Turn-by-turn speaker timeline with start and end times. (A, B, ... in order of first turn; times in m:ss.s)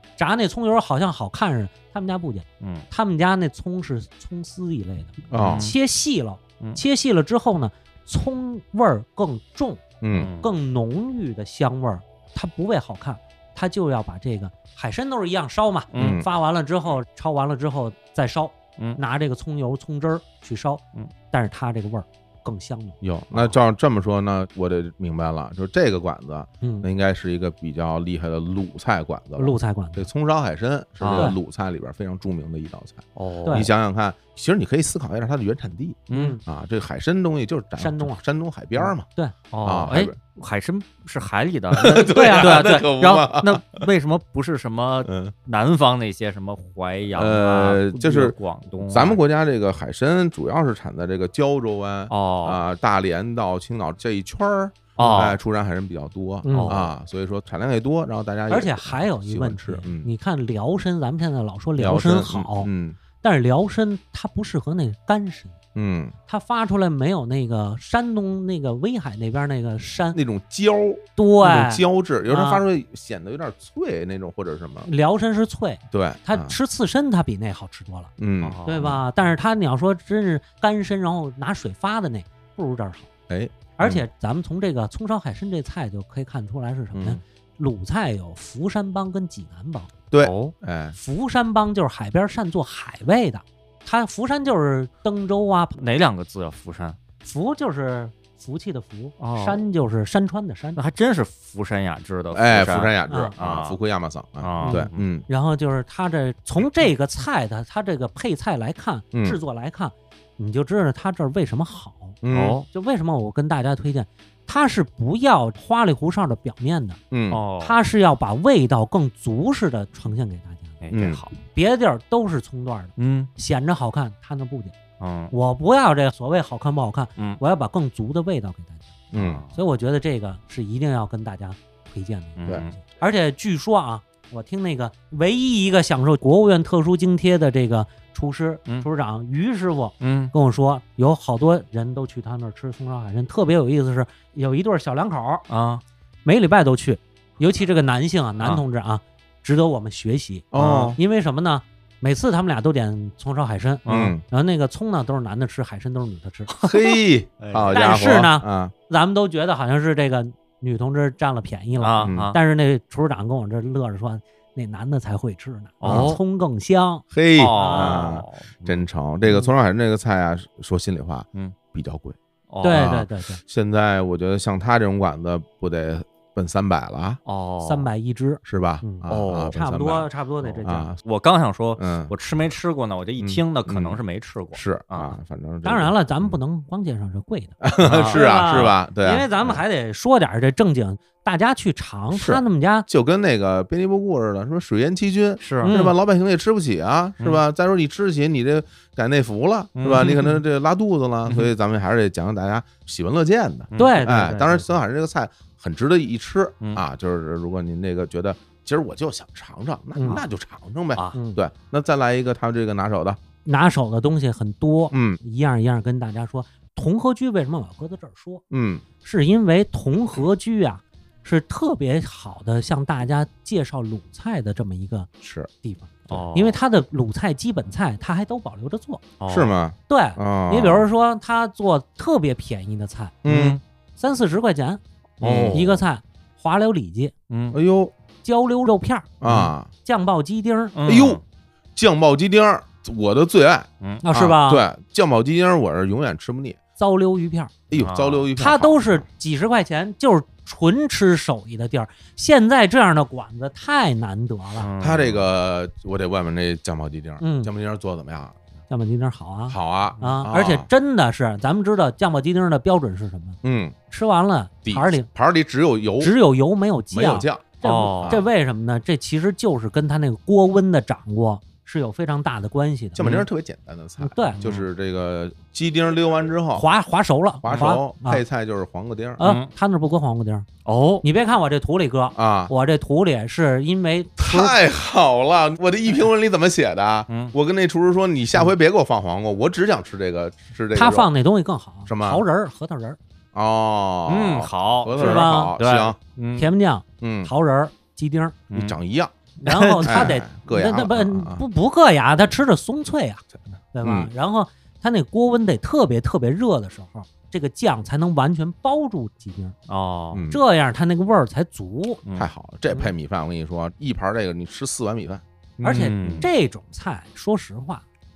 0:00.2-0:09.8 A
0:02.6-0:02.9 B
0:05.3-0:05.7 C
0:05.4-0:05.7 B
0:10.0-0:10.3 C
0:10.1-0:10.5 B
0:10.4-0:23.0 A
0:15.9-0:16.2 B
0:15.9-0:16.3 C
0:23.0-0:39.1 C
0:26.6-0:26.9 A
0:29.4-0:30.1 A
0:31.0-0:31.3 B
0:33.2-0:33.7 B
0:33.4-0:33.7 A
0:36.1-0:36.4 B
0:36.1-0:36.4 A
0:37.8-0:38.2 A
0:38.8-0:39.3 A
0:39.5-0:49.2 B
0:39.6-0:40.2 C
0:41.7-0:43.9 C
0:42.0-0:42.6 A
0:45.0-0:45.3 C
0:47.1-0:48.4 C
0:48.9-1:00.1 C
0:52.1-0:52.6 B
0:55.0-0:55.4 B
0:56.4-0:56.8 A
0:56.5-0:56.9 B
0:58.5-1:02.7 A
1:01.8-1:03.0 C
1:03.2-1:05.6 A
1:05.8-1:06.2 C
1:06.3-1:10.2 A
1:10.1-1:14.9 C
1:11.2-1:12.6 A
1:14.8-1:18.1 A
1:15.9-1:16.6 C
1:18.2-1:19.0 C
1:18.4-1:18.9 B
1:18.6-1:23.1 A
1:23.3-1:24.0 C
1:23.8-1:29.9 A
1:26.9-1:27.2 C
1:30.1-1:31.0 C
1:30.2-1:30.5 B
1:31.0-1:35.8 A
1:35.8-1:37.0 B
1:37.2-1:40.8 A
1:39.2-1:39.6 B
1:40.8-1:43.8 B
1:42.3-1:45.3 C
1:43.1-1:43.3 A
1:44.4-1:45.0 B
1:44.6-1:52.2 A
1:49.1-1:49.4 C
1:52.2-1:52.6 C
1:52.3-1:52.7 B
1:52.7-1:57.0 A
1:57.1-1:57.4 C
1:57.3-1:57.8 B
1:57.6-2:00.8 A
2:00.8-2:01.3 B
2:00.9-2:01.2 C
2:01.4-2:04.8 A
2:03.0-2:03.3 B
2:05.0-2:05.3 B
2:05.3-2:08.9 A
2:09.1-2:09.4 C
2:09.1-2:09.5 B
2:09.5-2:25.4 A
2:12.4-2:12.7 B
2:20.0-2:20.3 B
2:25.5-2:25.8 B
2:26.2-2:36.5 A
2:30.5-2:31.0 C
2:30.6-2:31.0 B
2:33.9-2:34.2 B
2:33.9-2:34.2 C
2:36.6-2:38.7 C
2:37.4-2:37.8 B
2:37.7-2:48.2 A
2:41.8-2:42.4 B
2:42.0-2:42.4 C
2:45.8-2:46.2 B
2:45.8-2:46.2 C
2:47.1-2:52.2 C
2:47.4-2:48.8 B
2:52.5-2:53.0 B
2:52.6-2:53.4 A
2:52.7-2:57.2 C
2:57.3-2:57.9 B
2:57.6-3:00.9 A
2:58.4-3:00.1 C
2:59.1-2:59.5 B
3:00.6-3:01.0 C
3:01.0-3:05.2 B
3:01.8-3:02.1 C
3:03.2-3:04.0 C
3:04.5-3:06.3 C
3:05.6-3:07.6 A
3:07.6-3:09.6 C
3:07.8-3:08.7 B
3:08.1-3:12.9 A
3:12.1-3:33.2 C
3:15.4-3:15.8 B
3:15.6-3:16.0 A
3:19.8-3:20.4 B
3:21.3-3:21.5 B
3:23.7-3:24.2 B
3:23.8-3:24.6 A
3:30.0-3:30.2 A
3:31.1-3:31.4 A
3:33.4-3:38.4 A
3:34.9-3:35.2 C
3:38.5-3:38.8 C
3:39.0-3:45.1 A
3:45.2-3:45.5 C
3:45.6-3:49.0 A
3:46.1-3:46.6 B
3:49.2-3:49.5 B
3:49.3-3:50.9 C
3:49.9-3:53.2 A
3:53.2-3:53.6 C
3:53.2-3:53.6 B
3:54.0-3:54.8 A
3:55.2-3:55.8 B
3:55.2-3:55.6 C
3:55.5-3:57.1 A
3:57.3-3:57.6 B
3:57.5-3:57.9 C
3:58.2-4:00.8 A
3:59.2-3:59.7 C
4:00.8-4:01.2 B
4:00.8-4:01.2 C
4:01.8-4:06.6 C
4:04.0-4:04.6 A
4:06.8-4:07.5 A
4:07.7-4:09.0 C
4:07.7-4:08.2 B
4:08.4-4:14.7 A
4:14.6-4:15.2 B
4:14.8-4:18.4 C
4:17.2-4:17.5 A
4:18.7-4:23.4 A
4:19.5-4:20.7 C
4:23.4-4:23.8 C
4:23.9-4:25.1 A
4:24.6-4:26.1 C
4:26.0-4:33.0 A
4:26.9-4:28.3 C
4:27.6-4:28.2 B
4:33.0-4:36.7 C
4:33.0-4:33.3 B
4:34.0-4:34.4 A
4:36.6-4:38.2 A
4:37.4-4:39.2 C
4:39.2-4:40.5 A
4:39.2-4:39.5 B
4:40.6-4:41.0 B
4:41.0-4:44.6 A
4:42.2-4:42.5 C
4:44.2-4:51.1 C
4:47.1-4:47.3 B
4:50.8-4:53.0 A
4:51.9-4:52.2 C
4:53.3-4:56.0 C
4:54.1-4:56.5 B
4:55.0-4:55.6 A
4:56.4-4:58.4 A
4:57.0-4:57.3 C
4:58.5-4:58.8 B
4:58.5-4:59.1 C
4:59.4-5:09.6 A
4:59.5-5:00.1 B
4:59.8-5:01.4 C
5:03.8-5:04.1 C
5:09.7-5:10.2 B
5:10.1-5:10.4 C
5:10.3-5:12.0 A
5:12.1-5:15.2 C
5:15.6-5:16.3 B
5:15.6-5:17.8 A
5:16.0-5:16.3 C